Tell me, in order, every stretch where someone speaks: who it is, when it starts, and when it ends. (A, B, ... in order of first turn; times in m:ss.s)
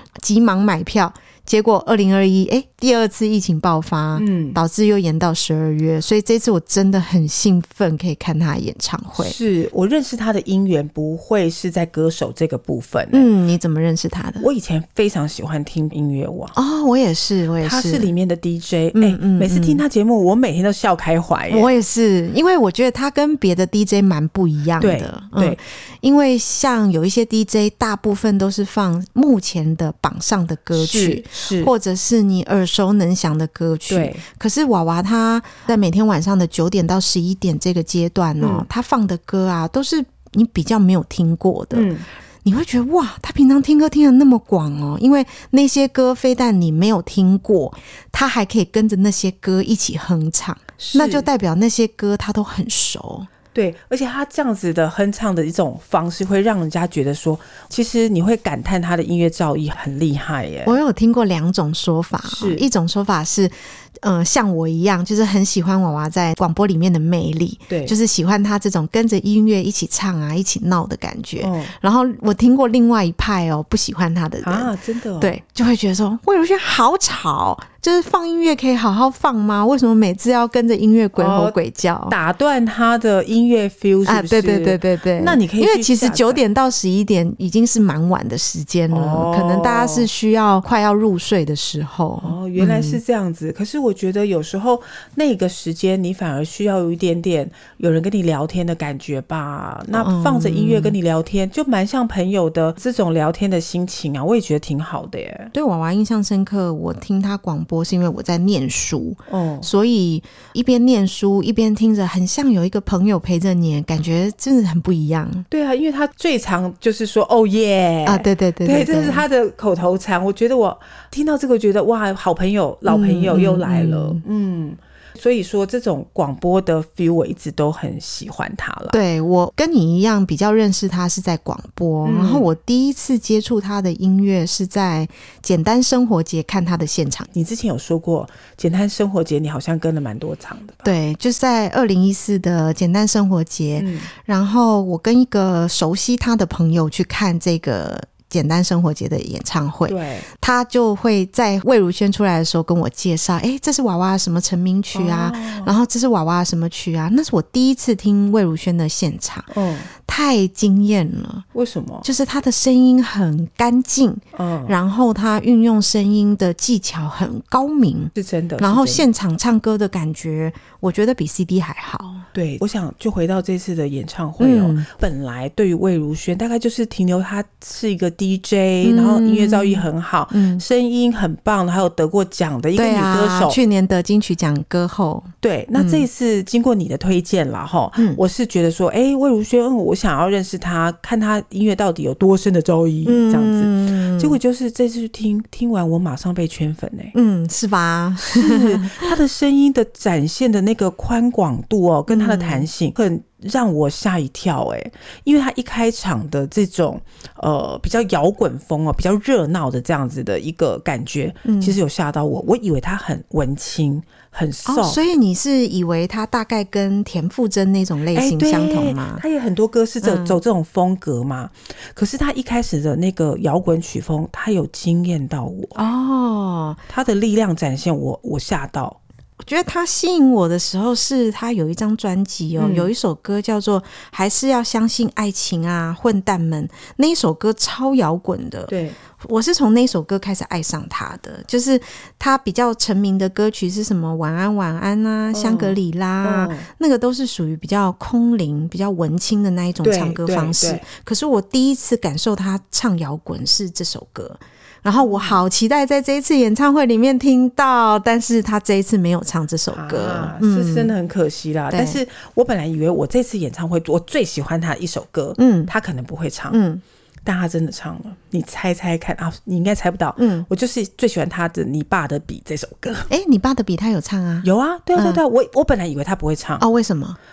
0:00.2-0:09.4 A
0:04.2-0:04.6 B
0:09.2-0:13.3 B
0:13.1-0:14.5 A
0:14.4-0:16.5 B
0:16.6-0:18.1 A
0:17.6-0:21.7 B
0:19.0-0:19.8 A
0:21.5-0:41.9 A
0:24.8-0:25.6 B
0:30.7-0:31.7 B
0:33.9-0:34.2 B
0:38.4-0:38.7 B
0:41.7-0:42.1 B
0:42.4-0:53.3 A
0:50.8-0:51.3 B
0:53.5-1:00.8 B
1:00.6-1:22.2 A
1:02.3-1:02.7 B
1:07.7-1:08.0 B
1:11.4-1:11.7 B
1:14.4-1:15.3 B
1:21.2-1:21.6 B
1:22.1-1:26.4 B
1:24.1-1:33.0 A
1:28.9-1:30.1 B
1:32.2-1:45.5 B
1:39.9-1:41.0 A
1:45.5-1:55.5 A
1:49.3-1:49.7 B
1:55.5-2:09.0 B
1:58.1-1:59.2 A
2:02.9-2:04.2 A
2:08.9-2:17.3 A
2:12.0-2:12.5 B
2:17.3-2:20.9 B
2:20.8-2:41.4 A
2:23.8-2:24.1 B
2:29.9-2:30.3 B
2:34.9-2:35.7 B
2:39.5-2:39.9 B
2:41.5-2:42.1 B
2:42.0-2:52.3 A
2:44.4-2:44.7 B
2:48.2-2:49.1 B
2:52.3-3:03.6 B
2:54.4-2:54.9 A
2:58.8-3:00.6 A
3:02.8-3:06.1 A
3:05.4-3:17.2 B
3:13.0-3:14.4 A
3:17.2-3:19.1 A
3:18.2-3:35.0 B
3:22.1-3:22.7 A
3:31.4-3:31.8 A
3:34.6-3:39.2 A
3:38.1-3:45.8 B
3:40.0-3:40.4 A
3:45.8-3:46.8 A
3:46.9-3:49.0 B
3:49.4-4:20.9 A
3:52.6-3:52.9 B
3:58.7-3:59.0 B
4:05.3-4:06.7 B
4:09.8-4:10.8 B
4:15.0-4:15.4 B
4:19.7-4:26.6 B
4:21.7-4:22.0 A
4:25.4-4:25.7 A
4:26.5-4:26.8 A
4:27.2-4:33.1 B
4:30.2-4:30.5 A
4:33.1-4:35.2 A
4:34.4-4:36.6 B
4:36.6-4:37.2 A